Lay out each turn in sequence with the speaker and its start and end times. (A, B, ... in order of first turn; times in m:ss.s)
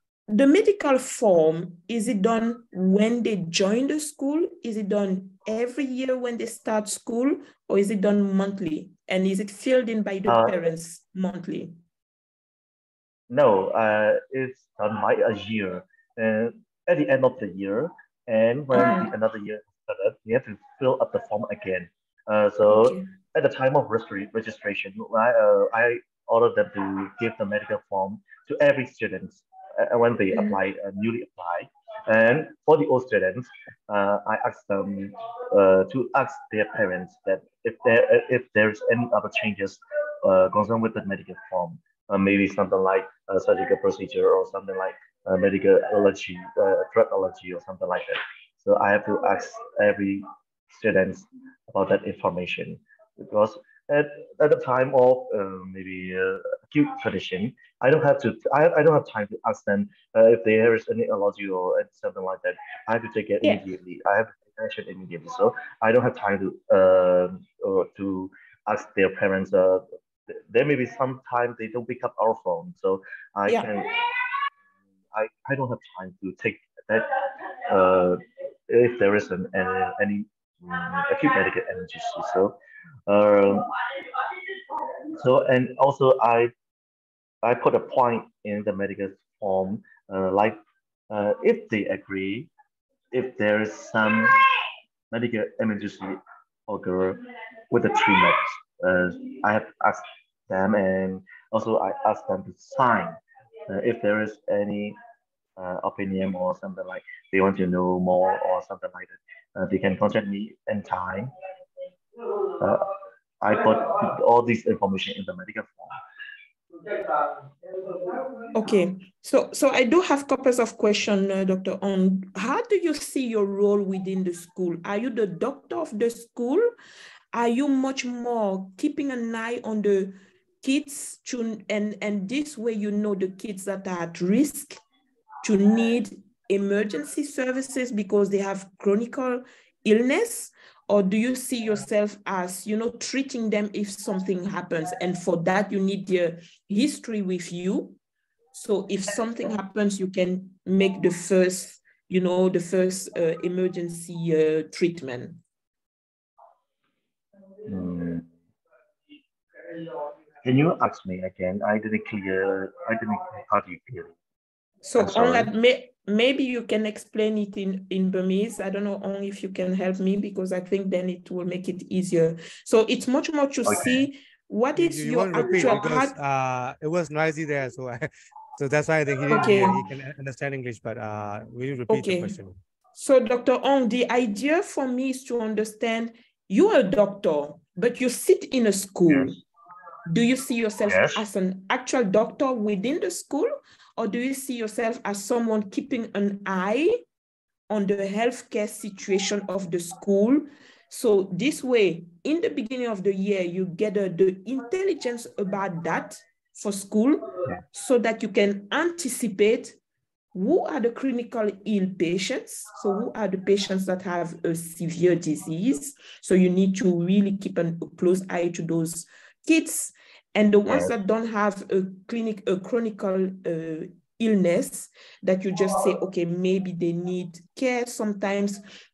0:00.3-0:11.8 A
0:10.2-0:10.6 B
0:13.3-1:14.0 B
0:18.7-0:19.1 A
0:22.7-0:23.0 A
0:30.3-0:30.6 A
1:15.1-1:23.7 B
1:25.1-1:26.5 B
1:27.4-1:32.5 B
1:33.1-1:34.4 B
1:35.1-1:45.0 B
1:45.6-1:51.3 B
1:52.6-1:55.9 B
1:58.5-2:06.7 A
2:07.3-2:14.8 A
2:15.4-2:28.0 A
2:28.5-2:35.4 A
2:37.6-2:38.3 B
2:40.4-2:44.1 B
2:44.8-2:56.1 A
2:45.0-2:45.5 B
2:53.6-2:54.0 B
2:54.7-3:02.6 C
2:59.3-2:59.8 A
3:01.9-3:02.3 A
3:02.9-3:09.4 A
3:09.1-3:09.3 B
3:10.1-3:17.0 A
3:10.8-3:11.2 B
3:17.7-3:29.8 A
3:30.3-3:48.6 A
3:40.6-3:40.9 B